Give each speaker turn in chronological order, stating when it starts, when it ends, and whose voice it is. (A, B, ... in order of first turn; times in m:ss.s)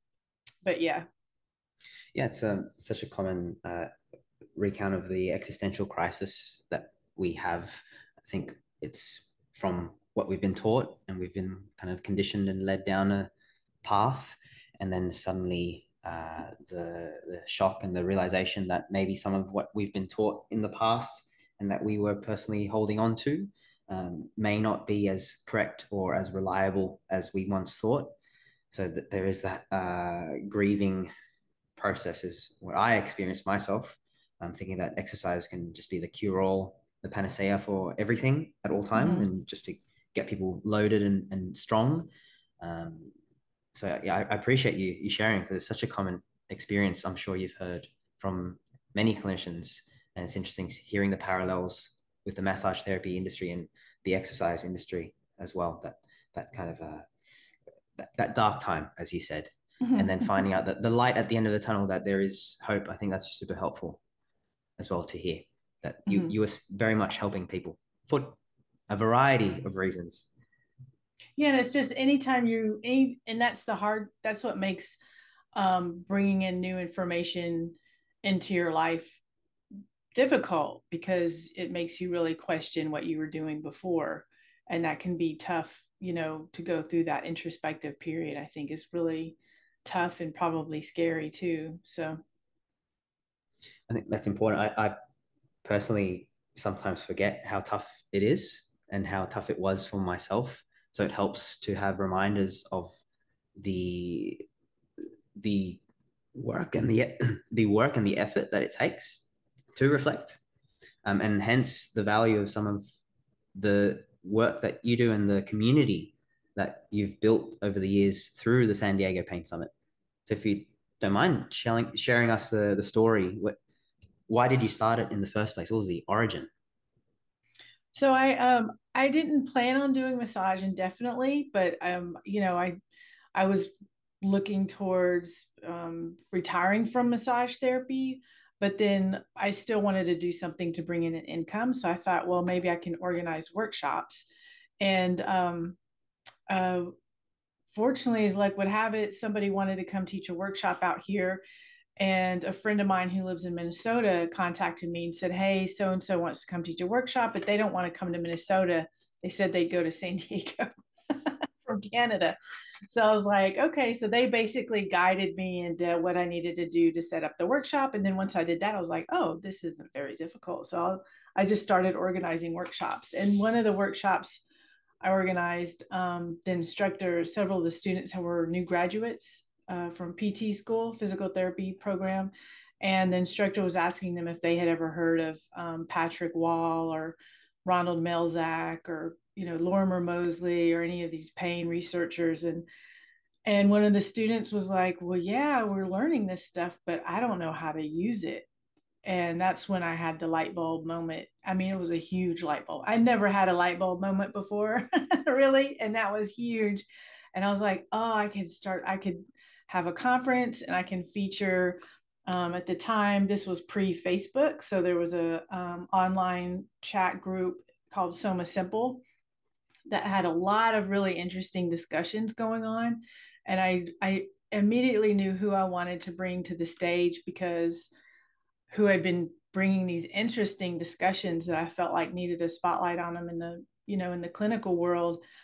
0:00.6-0:01.0 A
0:02.1-0:03.9 B
0:04.6-0:13.3 B
0:13.8-0:28.1 B
0:28.7-0:31.1 B
0:31.8-0:42.1 B
0:38.9-0:39.3 A
0:42.6-0:43.1 B
0:43.7-0:57.1 B
0:58.0-1:04.0 B
0:59.8-1:00.3 A
1:04.8-1:08.4 B
1:06.1-1:06.3 A
1:08.9-1:10.3 B
1:11.4-1:15.0 A
1:15.5-1:19.2 A
1:20.1-1:32.2 A
1:33.9-1:34.9 B
1:35.6-1:43.0 B
1:43.6-1:44.4 B
1:45.4-1:45.8 B
1:46.3-1:49.2 B
1:49.7-1:50.4 B
1:51.0-1:52.8 B
1:53.6-1:59.7 B
2:00.2-2:03.6 B
2:04.3-2:06.5 B
2:07.9-2:12.8 A
2:13.3-2:24.3 A
2:24.8-2:25.8 A
2:26.5-2:26.9 A
2:27.7-2:31.4 A
2:32.0-2:54.4 A
2:55.0-3:12.7 A
3:13.4-3:18.4 A
3:19.0-3:39.0 A
3:39.9-3:47.9 A
3:48.7-3:55.2 A